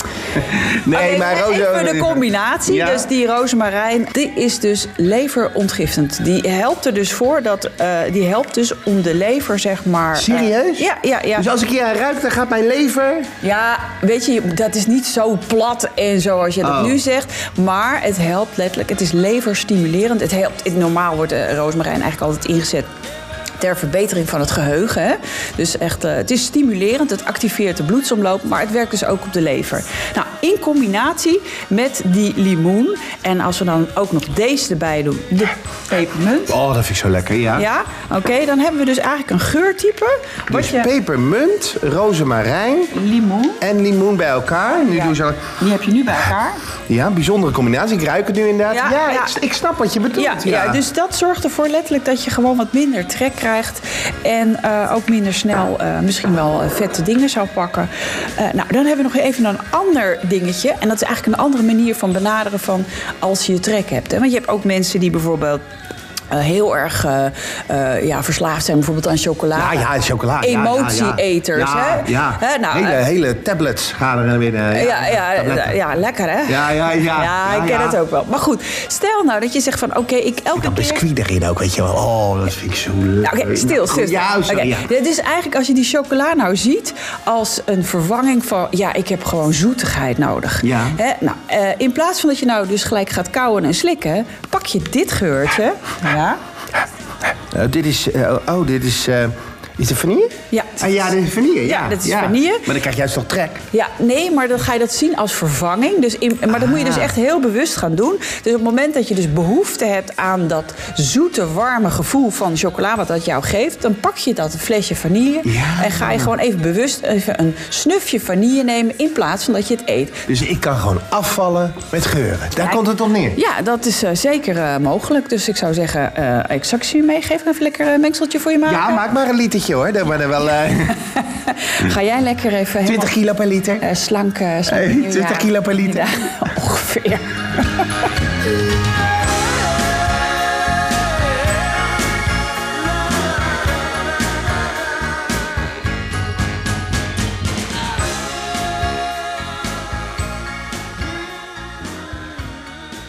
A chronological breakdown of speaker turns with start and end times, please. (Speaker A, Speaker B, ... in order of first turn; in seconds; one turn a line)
Speaker A: 0.4-3.1
Speaker B: 0.9-11.5
Speaker A: 10.2-13.3
Speaker B: 13.4-22.9
Speaker A: 16.6-17.0
Speaker B: 23.6-36.5
Speaker A: 36.5-37.7
Speaker B: 37.5-40.9
Speaker A: 40.5-42.9
Speaker B: 42.9-43.6
Speaker A: 43.6-45.4
Speaker B: 44.9-46.6
Speaker A: 46.9-50.8
Speaker B: 48.7-49.4
Speaker B: 50.1-65.6
Speaker B: 66.3-69.9
Speaker A: 69.5-75.8
Speaker B: 70.4-73.0
Speaker B: 74.7-81.0
Speaker A: 76.5-78.0
Speaker A: 80.5-84.9
Speaker B: 83.2-96.4
Speaker A: 90.6-91.0
Speaker A: 97.5-103.6
Speaker B: 100.5-101.0
Speaker B: 101.6-102.7
Speaker B: 103.7-120.2
Speaker A: 106.5-107.1
Speaker A: 115.5-116.3
Speaker A: 120.3-123.4
Speaker B: 123.3-129.0
Speaker A: 128.7-131.0
Speaker B: 131.2-133.1
Speaker A: 132.8-133.8
Speaker B: 133.8-137.9
Speaker A: 134.7-136.3